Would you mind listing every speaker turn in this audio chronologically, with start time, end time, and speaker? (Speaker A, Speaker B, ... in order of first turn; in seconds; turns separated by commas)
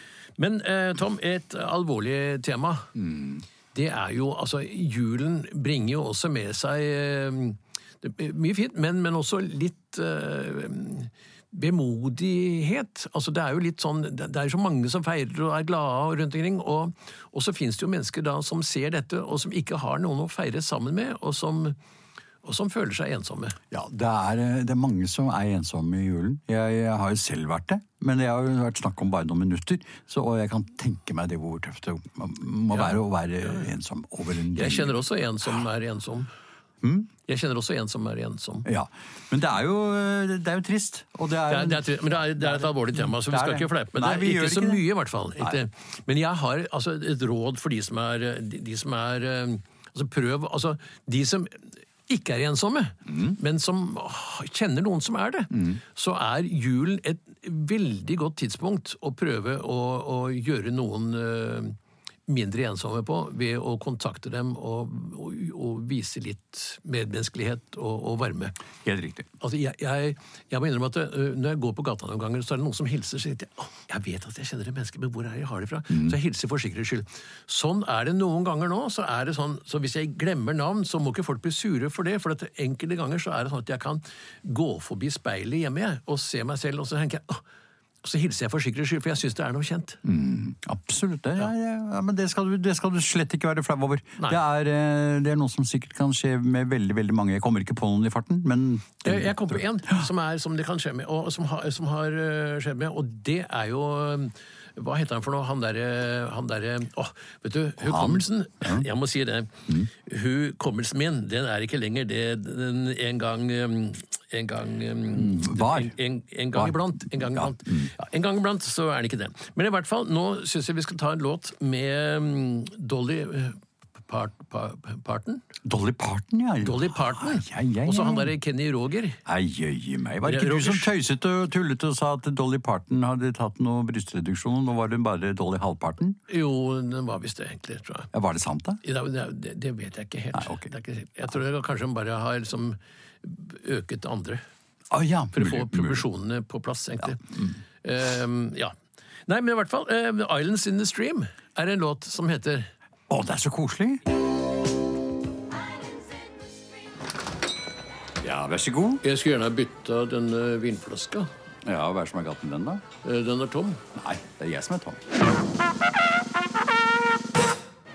Speaker A: 0.4-2.9, Speaker B: 2.9-3.4, Speaker A: 3.7-21.8, Speaker A: 22.4-23.6, Speaker B: 23.7-35.0, Speaker A: 32.7-33.0, Speaker A: 34.5-36.3, Speaker B: 36.8-37.1, Speaker A: 37.2-38.6, Speaker B: 38.6-44.8, Speaker A: 41.5-61.8, Speaker B: 53.1-53.4, Speaker B: 55.5-55.8, Speaker A: 62.3-68.5, Speaker B: 68.8-69.3, Speaker A: 69.4-87.4, Speaker A: 88.0-90.0, Speaker B: 90.0-100.0, Speaker A: 99.0-125.4, Speaker B: 107.8-108.8, Speaker B: 115.1-116.0, Speaker B: 116.5-117.9, Speaker B: 125.6-128.3, Speaker A: 126.6-129.2, Speaker B: 129.2-136.2, Speaker A: 130.2-130.9, Speaker A: 136.3-138.1, Speaker B: 138.1-138.8, Speaker A: 138.8-144.4, Speaker B: 140.3-140.7, Speaker B: 144.9-146.1, Speaker A: 145.3-147.2, Speaker B: 147.0-147.6, Speaker A: 147.8-148.7, Speaker A: 149.3-152.7, Speaker B: 153.1-154.0, Speaker B: 158.2-159.0, Speaker A: 159.0-161.3, Speaker B: 161.6-162.8, Speaker A: 163.0-163.8, Speaker B: 163.9-165.0